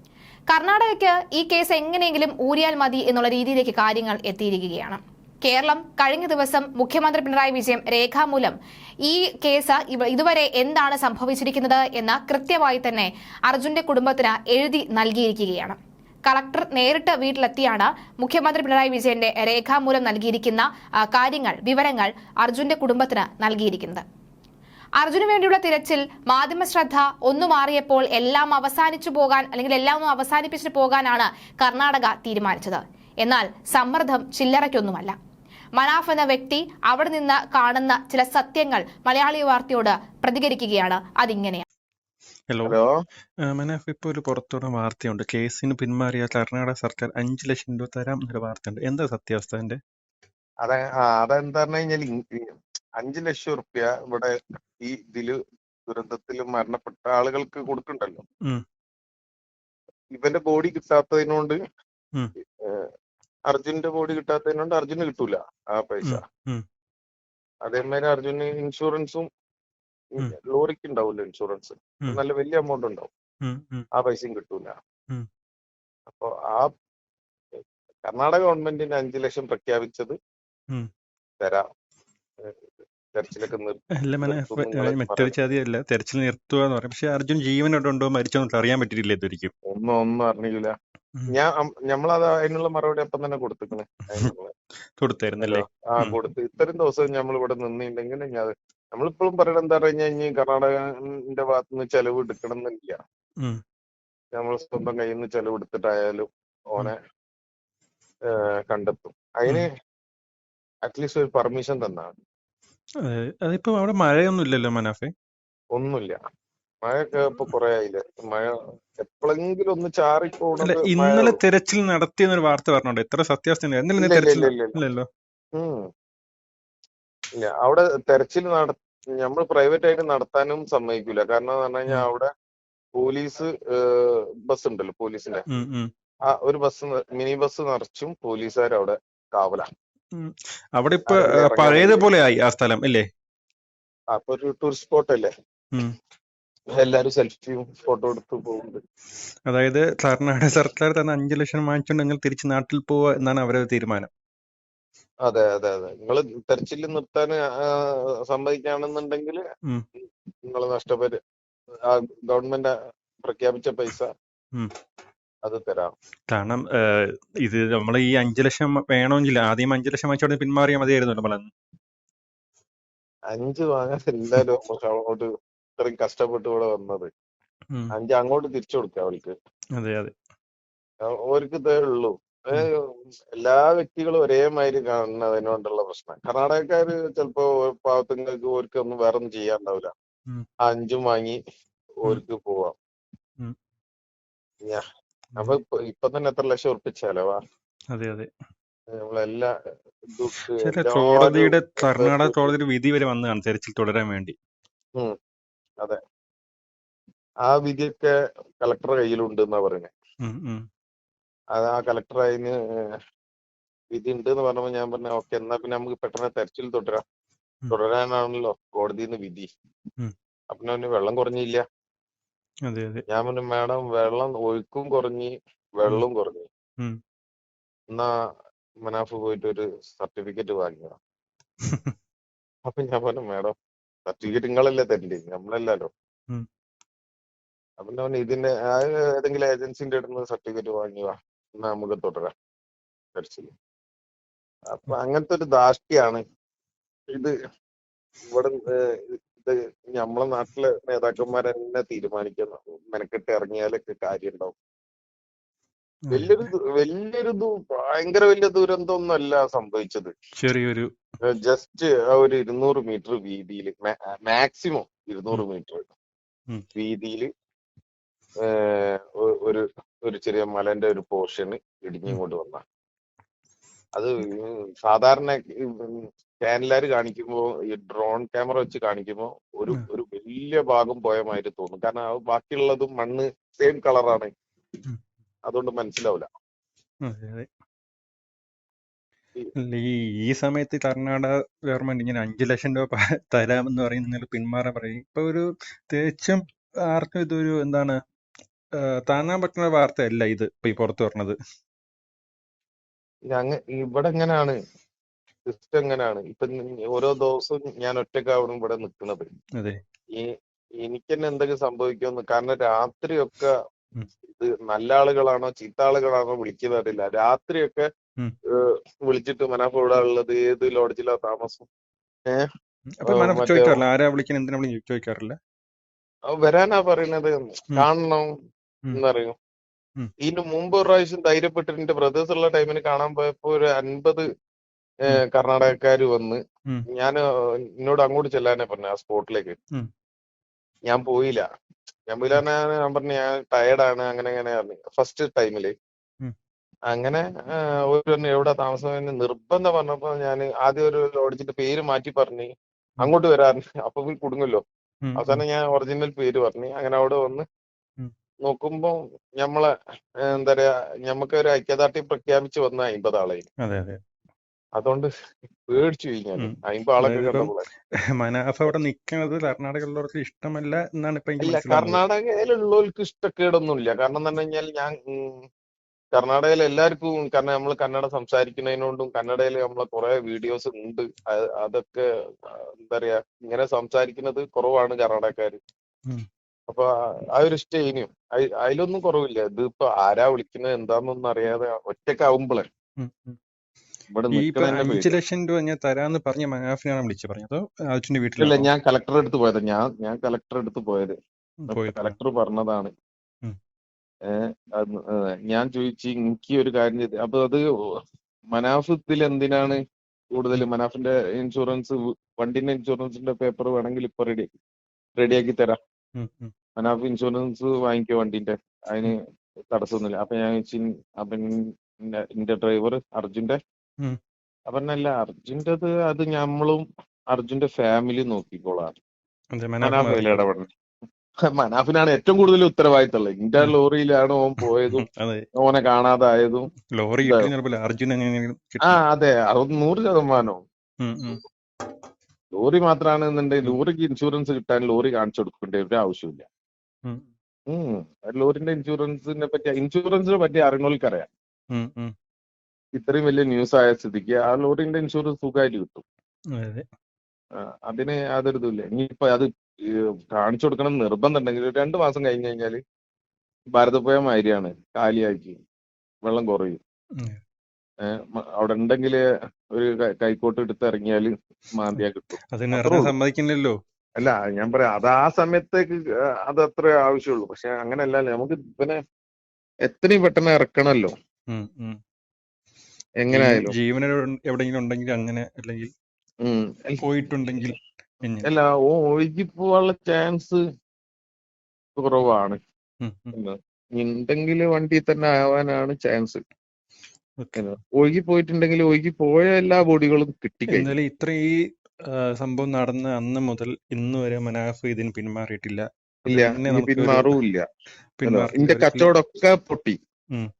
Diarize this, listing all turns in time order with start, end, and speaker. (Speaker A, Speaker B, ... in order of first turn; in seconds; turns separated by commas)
Speaker A: 0.5-24.0, Speaker A: 25.0-35.1, Speaker A: 35.8-41.6, Speaker B: 42.5-42.8, Speaker C: 42.6-42.9, Speaker B: 43.5-49.8, Speaker C: 50.6-58.2, Speaker C: 60.1-61.6, Speaker C: 63.5-66.2, Speaker B: 66.0-66.6, Speaker C: 67.7-69.3, Speaker C: 70.2-73.1, Speaker B: 73.4-73.9, Speaker C: 74.0-74.8, Speaker C: 76.1-76.7, Speaker C: 78.0-80.1, Speaker C: 83.1-85.3, Speaker B: 84.0-89.5, Speaker C: 89.7-90.7, Speaker C: 91.3-94.5, Speaker B: 95.0-96.2, Speaker C: 95.4-103.0, Speaker C: 104.4-107.0, Speaker C: 108.3-109.7, Speaker C: 110.8-112.1, Speaker B: 113.0-115.1, Speaker C: 115.8-116.2, Speaker C: 116.8-121.4, Speaker B: 120.6-125.1, Speaker C: 124.0-124.8, Speaker C: 125.6-125.9, Speaker C: 127.4-132.3, Speaker C: 133.0-135.4, Speaker B: 135.5-135.9, Speaker C: 136.3-139.7, Speaker B: 140.1-143.1, Speaker C: 141.1-142.1, Speaker C: 144.1-145.3, Speaker C: 146.8-148.8, Speaker B: 149.5-154.1, Speaker C: 155.2-159.4, Speaker C: 160.5-161.2, Speaker C: 161.9-164.1, Speaker C: 165.4-165.9, Speaker B: 166.3-171.5, Speaker C: 173.3-175.3, Speaker C: 175.8-177.1, Speaker C: 177.9-179.3, Speaker B: 179.8-180.1, Speaker C: 181.0-189.9, Speaker C: 190.7-191.4, Speaker C: 192.0-192.8, Speaker C: 195.4-197.4, Speaker B: 197.9-198.3, Speaker C: 199.0-199.5, Speaker C: 200.1-202.5, Speaker B: 200.6-204.3, Speaker C: 207.5-209.9, Speaker B: 210.2-210.7, Speaker C: 211.5-213.0, Speaker C: 213.9-217.0, Speaker C: 217.7-219.5, Speaker C: 220.5-221.6, Speaker B: 222.7-223.0, Speaker C: 223.1-226.5, Speaker C: 228.8-230.9, Speaker C: 232.7-235.9, Speaker C: 237.8-242.3, Speaker C: 243.2-243.5, Speaker C: 244.7-246.2, Speaker C: 248.3-254.5, Speaker B: 256.1-256.4, Speaker C: 256.1-260.1, Speaker B: 260.4-260.9, Speaker C: 261.2-265.9, Speaker C: 266.8-267.3, Speaker C: 268.4-272.6, Speaker C: 274.0-284.3, Speaker C: 285.5-286.3, Speaker B: 287.0-287.5, Speaker B: 289.6-298.0, Speaker B: 299.1-301.4, Speaker C: 303.3-304.6, Speaker C: 305.5-309.3, Speaker C: 310.8-313.6, Speaker C: 314.3-317.9, Speaker C: 318.6-321.7, Speaker B: 322.9-325.4, Speaker C: 323.1-323.8, Speaker C: 326.3-328.3, Speaker C: 328.9-329.4, Speaker C: 330.2-334.2, Speaker C: 335.1-336.4, Speaker C: 336.9-339.6, Speaker C: 340.9-341.4, Speaker C: 342.1-345.7, Speaker C: 346.9-347.2, Speaker C: 347.9-352.5, Speaker C: 353.0-354.6, Speaker B: 355.0-355.4, Speaker C: 355.2-357.4, Speaker C: 358.4-359.7, Speaker C: 360.3-363.4, Speaker B: 363.6-364.0, Speaker C: 364.8-365.1, Speaker C: 365.7-367.7, Speaker B: 366.4-367.5, Speaker B: 368.2-372.0, Speaker C: 371.4-375.4, Speaker C: 376.1-385.6, Speaker C: 386.7-392.7, Speaker B: 393.0-393.4, Speaker C: 394.1-395.1, Speaker B: 394.3-398.7, Speaker C: 398.4-401.2, Speaker B: 401.6-402.2, Speaker C: 401.7-402.9, Speaker C: 404.3-407.6, Speaker C: 408.5-409.8, Speaker C: 410.3-414.5, Speaker C: 415.2-415.8, Speaker B: 416.2-416.5, Speaker C: 416.8-419.2, Speaker C: 419.7-421.6, Speaker C: 422.1-423.6, Speaker C: 424.7-428.9, Speaker B: 429.5-430.4, Speaker C: 429.8-430.7, Speaker C: 431.5-435.1, Speaker B: 434.9-435.4, Speaker C: 435.6-436.7, Speaker B: 437.0-439.0, Speaker C: 437.2-437.5, Speaker C: 438.9-440.6, Speaker B: 441.0-441.4, Speaker C: 442.6-446.5, Speaker C: 447.7-451.3, Speaker B: 451.7-452.1, Speaker C: 452.9-456.0, Speaker B: 456.6-456.9, Speaker C: 457.6-462.8, Speaker C: 463.7-465.6, Speaker C: 466.2-466.8, Speaker C: 468.1-469.2, Speaker C: 469.7-473.1, Speaker B: 472.5-473.7, Speaker C: 474.2-479.0, Speaker C: 479.9-481.1, Speaker B: 481.5-482.0, Speaker C: 483.2-483.7, Speaker B: 483.3-485.9, Speaker C: 486.4-487.0, Speaker B: 487.0-488.5, Speaker C: 488.4-490.6, Speaker C: 492.0-492.6, Speaker B: 493.0-493.3, Speaker C: 493.3-496.4, Speaker C: 497.6-500.9, Speaker B: 500.7-507.4, Speaker C: 506.3-507.6, Speaker B: 508.2-509.1, Speaker C: 508.3-510.0